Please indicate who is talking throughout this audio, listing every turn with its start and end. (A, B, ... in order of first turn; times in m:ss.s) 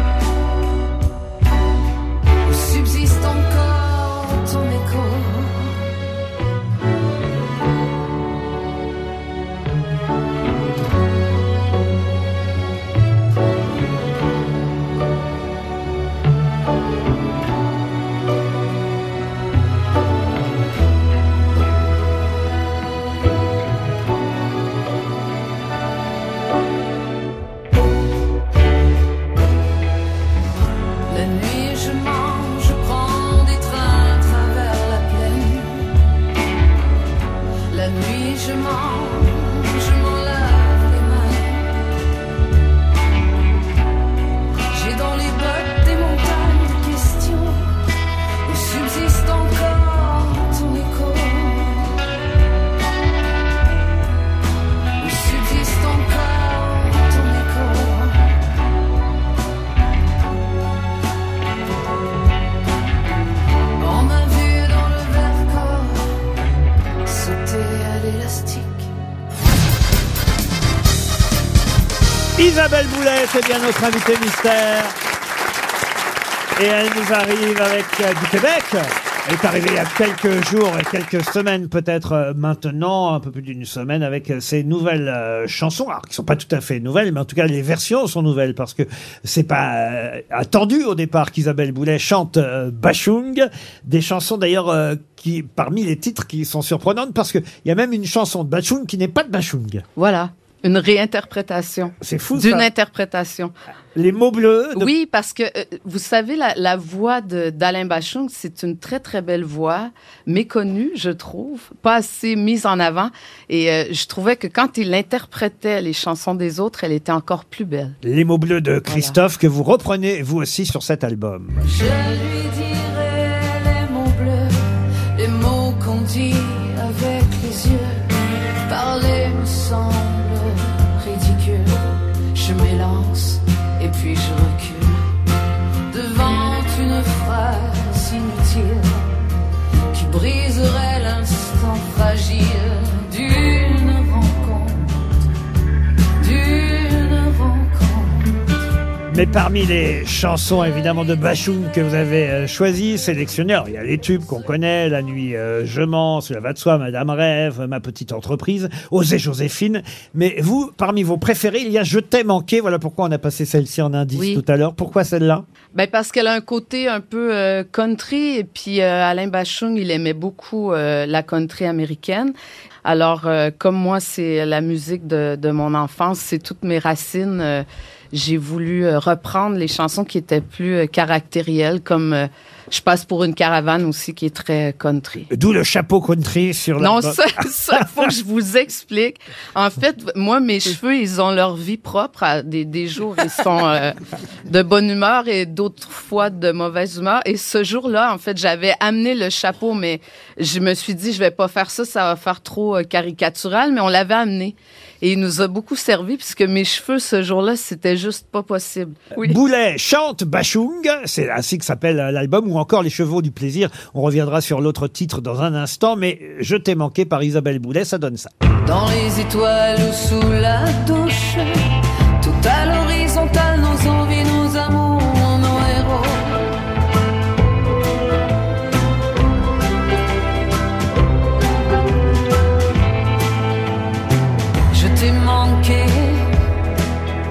0:02.4-0:05.9 A
0:31.1-0:35.9 A
0:37.7-0:41.7 A
0:44.7-0:47.7 A
0:48.4-0:51.9 A
0:55.0-0:58.3 A
1:03.8-1:06.1 A
1:07.0-1:08.9 A
1:12.4-1:15.0 B
1:16.6-1:39.8 B
1:40.0-1:43.5 C
1:42.0-1:42.7 B
1:44.0-1:44.9 B
1:44.8-1:58.0 C
1:58.0-2:01.7 B
1:58.9-1:59.2 C
2:01.6-2:08.0 A
2:08.7-2:15.0 A
2:15.9-2:19.2 A
2:19.9-2:25.2 A
2:26.2-2:28.3 A
2:29.1-2:45.4 B
2:44.2-2:44.4 C
2:45.7-2:52.3 C
2:52.8-3:05.3 C
3:05.3-3:07.9 B
3:06.8-3:14.0 C
3:14.5-3:29.4 C
3:29.2-3:38.3 B
3:38.6-3:46.5 A
3:54.7-3:56.3 A